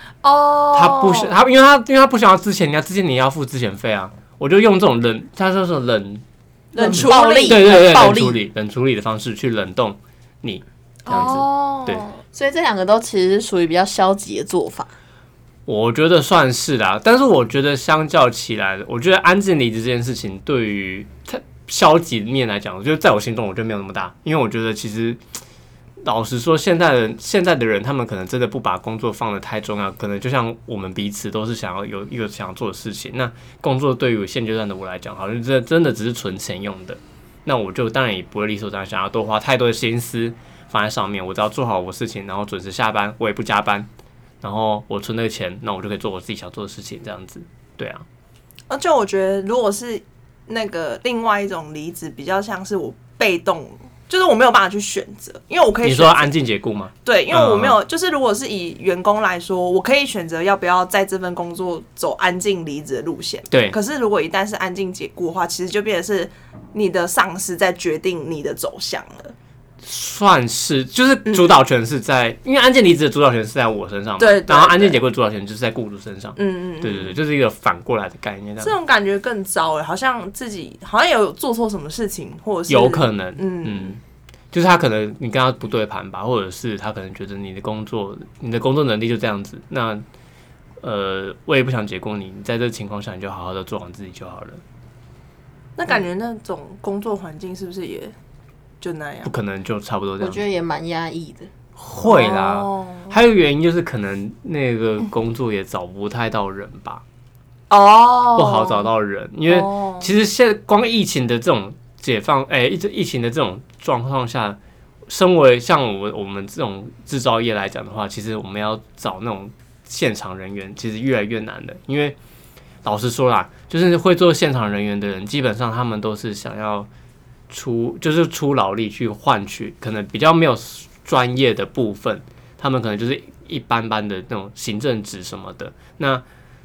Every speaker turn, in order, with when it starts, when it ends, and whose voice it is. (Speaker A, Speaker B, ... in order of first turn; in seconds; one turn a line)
Speaker A: 0.2-1.4
Speaker B: 0.7-6.2
Speaker A: 6.7-7.7
Speaker C: 6.8-8.4
Speaker B: 6.9-12.1
Speaker A: 11.1-12.2
Speaker C: 12.3-14.9
Speaker B: 15.7-25.2
Speaker B: 26.0-43.9
Speaker B: 44.4-48.0
Speaker A: 48.7-56.3
Speaker B: 55.8-57.8
Speaker A: 57.0-69.3
Speaker B: 63.5-63.8
Speaker B: 69.8-78.8
Speaker A: 71.3-71.5
Speaker A: 74.2-75.0
Speaker A: 76.4-77.2
Speaker A: 78.6-84.0
Speaker B: 82.7-84.0
Speaker B: 84.5-90.0
Speaker B: 90.8-94.6
Speaker A: 95.8-98.1
Speaker A: 98.8-99.3
Speaker B: 99.2-100.4
Speaker C: 100.2-101.5
Speaker B: 101.8-107.0
Speaker A: 102.0-103.1
Speaker A: 107.7-108.9
Speaker B: 108.3-122.2
Speaker A: 109.5-110.1
Speaker B: 122.8-126.9
Speaker B: 127.5-136.2